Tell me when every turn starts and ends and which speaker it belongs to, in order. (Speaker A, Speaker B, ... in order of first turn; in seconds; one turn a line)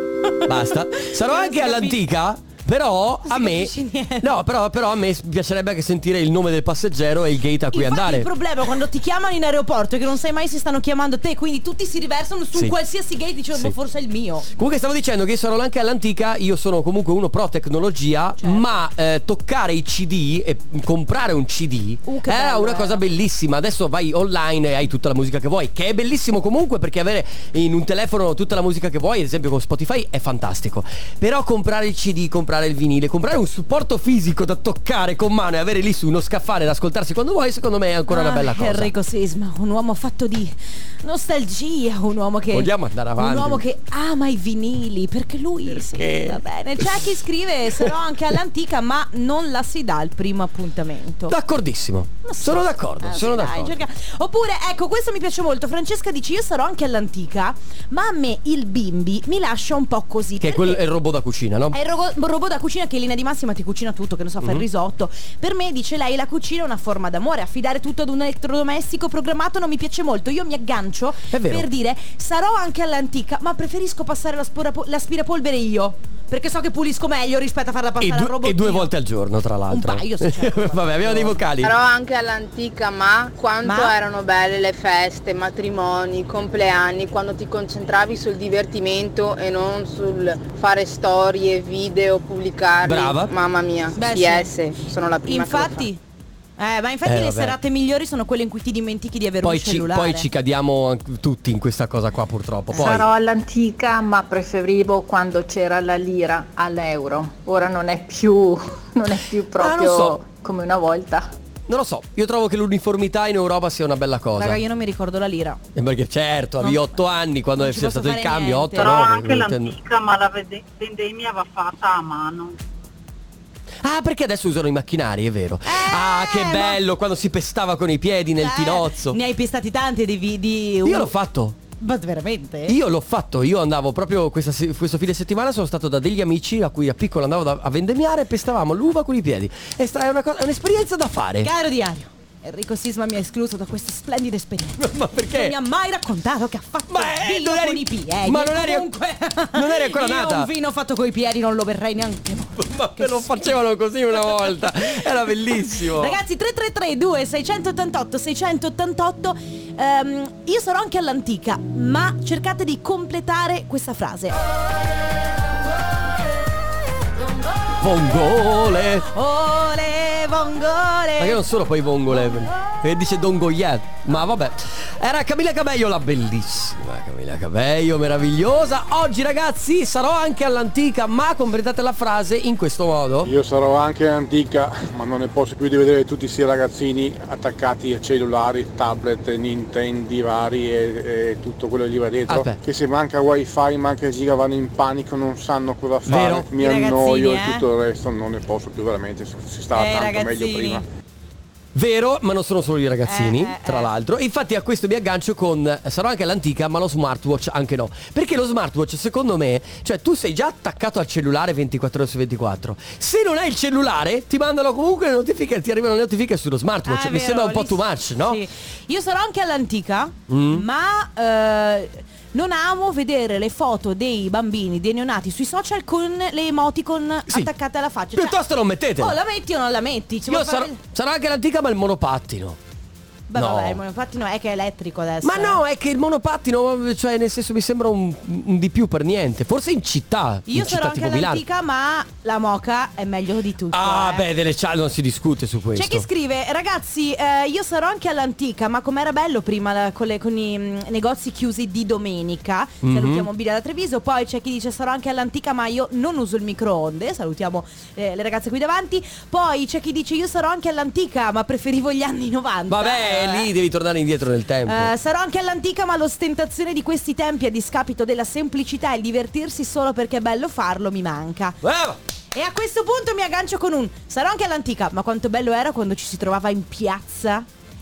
Speaker A: 0.4-8.3
Speaker B: 0.4-2.0
Speaker B: 3.2-4.3
Speaker B: 7.7-14.5
Speaker A: 14.5-38.9
Speaker B: 18.4-18.8
Speaker B: 22.1-23.0
Speaker B: 38.1-51.4
Speaker A: 42.5-43.6
Speaker A: 45.6-47.0
Speaker A: 47.7-48.0
Speaker A: 51.3-53.8
Speaker B: 52.2-60.8
Speaker A: 60.4-61.8
Speaker B: 61.7-78.9
Speaker A: 71.3-71.7
Speaker A: 78.0-81.7
Speaker B: 79.7-81.4
Speaker C: 81.6-95.9
Speaker B: 83.6-83.9
Speaker A: 92.8-93.3
Speaker B: 93.9-94.5
Speaker B: 95.2-96.0
Speaker B: 96.6-100.3
Speaker A: 97.0-97.6
Speaker A: 99.4-103.1
Speaker D: 102.7-111.3
Speaker B: 102.7-103.0
Speaker A: 109.6-110.2
Speaker A: 111.7-114.6
Speaker B: 114.3-115.6
Speaker A: 115.7-119.8
Speaker B: 116.6-117.0
Speaker B: 117.6-119.2
Speaker E: 118.8-122.6
Speaker A: 123.8-129.2
Speaker B: 125.7-126.8
Speaker B: 128.4-131.1
Speaker A: 130.8-131.6
Speaker B: 131.8-132.8
Speaker A: 132.7-141.5
Speaker B: 141.4-153.5
Speaker A: 144.8-145.5
Speaker A: 146.9-148.9
Speaker A: 149.5-150.5
Speaker A: 152.6-156.2
Speaker B: 155.7-164.4
Speaker A: 167.8-169.1
Speaker B: 169.0-171.4
Speaker A: 171.2-183.3
Speaker B: 172.2-172.8
Speaker F: 183.2-200.8
Speaker A: 192.3-192.6
Speaker A: 196.1-196.5
Speaker B: 196.6-197.7
Speaker B: 199.7-200.8
Speaker A: 201.7-218.4
Speaker B: 203.0-203.9
Speaker B: 216.8-228.4
Speaker A: 220.3-220.7
Speaker A: 228.1-229.2
Speaker B: 229.0-230.8
Speaker A: 230.3-232.6
Speaker B: 233.3-235.6
Speaker A: 233.3-233.8
Speaker A: 235.2-241.4
Speaker B: 240.5-244.2
Speaker A: 243.7-246.1
Speaker B: 245.7-263.5
Speaker A: 252.8-253.3
Speaker A: 262.7-264.9
Speaker B: 264.7-271.6
Speaker A: 271.6-272.0
Speaker B: 272.3-277.5